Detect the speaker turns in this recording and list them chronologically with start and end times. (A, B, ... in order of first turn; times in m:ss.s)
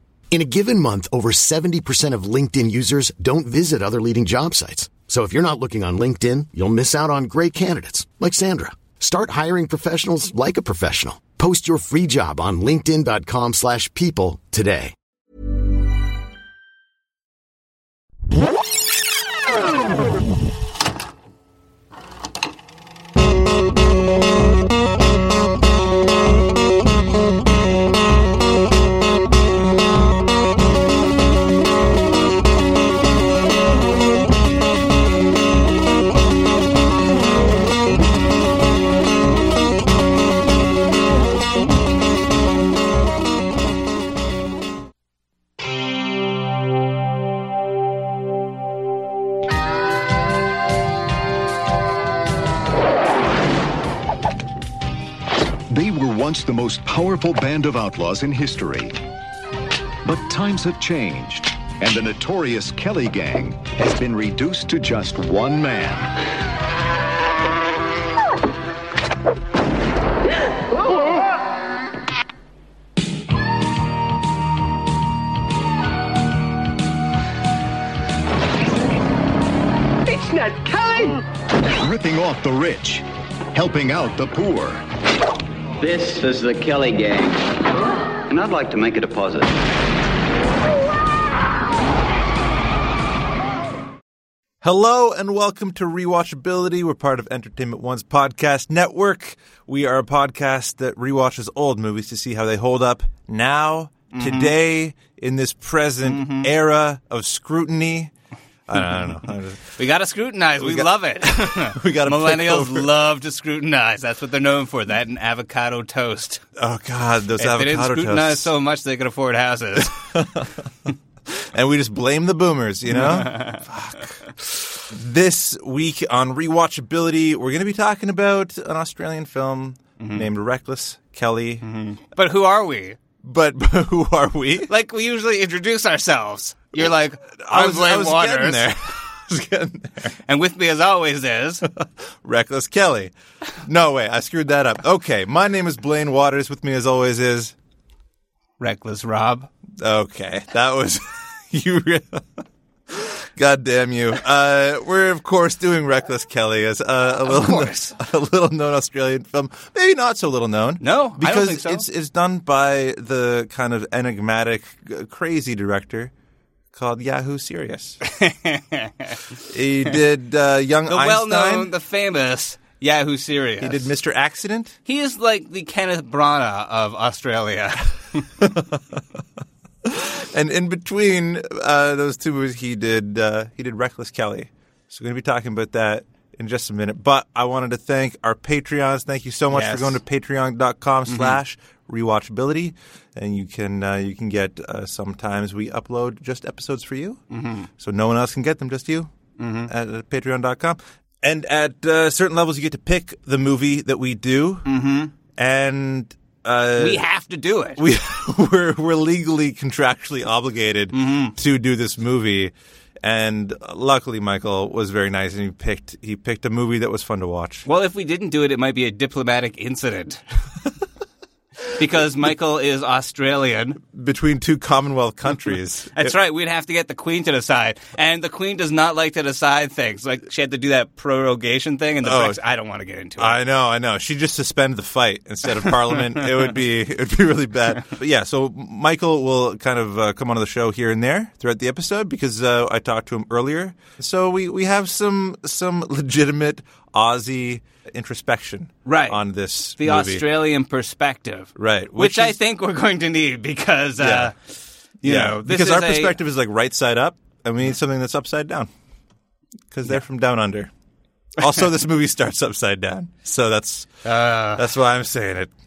0:00.3-0:14.9 A
0:55.7-0:59.0 B
1:00.0-1:06.1 B
1:20.4-1:21.1 C
1:21.8-1:24.8 B
1:25.8-1:27.4 C
1:28.3-1:29.5 C
1:34.6-1:48.1 D
1:44.1-1:44.6 E
1:46.0-1:46.5 E
1:48.7-1:49.7 D
1:49.8-1:56.4 E
1:50.6-1:52.9 D
1:56.6-1:58.5 D
1:57.4-2:00.0 E
2:00.0-2:00.6 D
2:01.3-2:11.6 D
2:02.9-2:03.6 E
2:10.0-2:10.3 E
2:11.6-2:13.0 E
2:13.2-2:14.7 D
2:14.7-2:18.7 E
2:16.8-2:20.1 D
2:20.3-2:21.6 E
2:21.6-2:27.6 D
2:28.6-2:29.5 E
2:29.8-2:46.1 D
2:37.2-2:38.0 E
2:40.8-2:41.8 E
2:46.7-2:48.0 D
2:48.0-2:49.2 E
2:49.5-2:51.7 D
2:50.9-2:53.9 E
2:53.6-2:54.8 D
2:54.9-2:58.3 E
2:58.4-2:59.0 D
2:59.8-3:17.2 D
3:09.5-3:10.0 E
3:11.1-3:11.4 E
3:17.3-3:17.7 E
3:17.8-3:19.1 D
3:19.4-3:19.7 E
3:19.7-3:24.7 D
3:24.6-3:25.1 E
3:25.4-3:27.0 D
3:26.8-3:27.8 E
3:27.8-3:37.7 D
3:30.9-3:31.4 E
3:37.6-3:40.2 E
3:41.7-3:43.8 E
3:43.9-3:46.2 D
3:45.9-3:53.4 E
3:52.0-3:52.4 D
3:53.2-4:10.2 D
4:08.8-4:09.2 E
4:09.8-4:14.4 E
4:11.6-4:12.4 D
4:14.0-4:14.3 D
4:15.0-4:16.2 E
4:15.0-4:18.7 D
4:19.7-4:20.7 D
4:21.4-4:23.9 D
4:24.0-4:24.6 E
4:24.6-4:25.5 D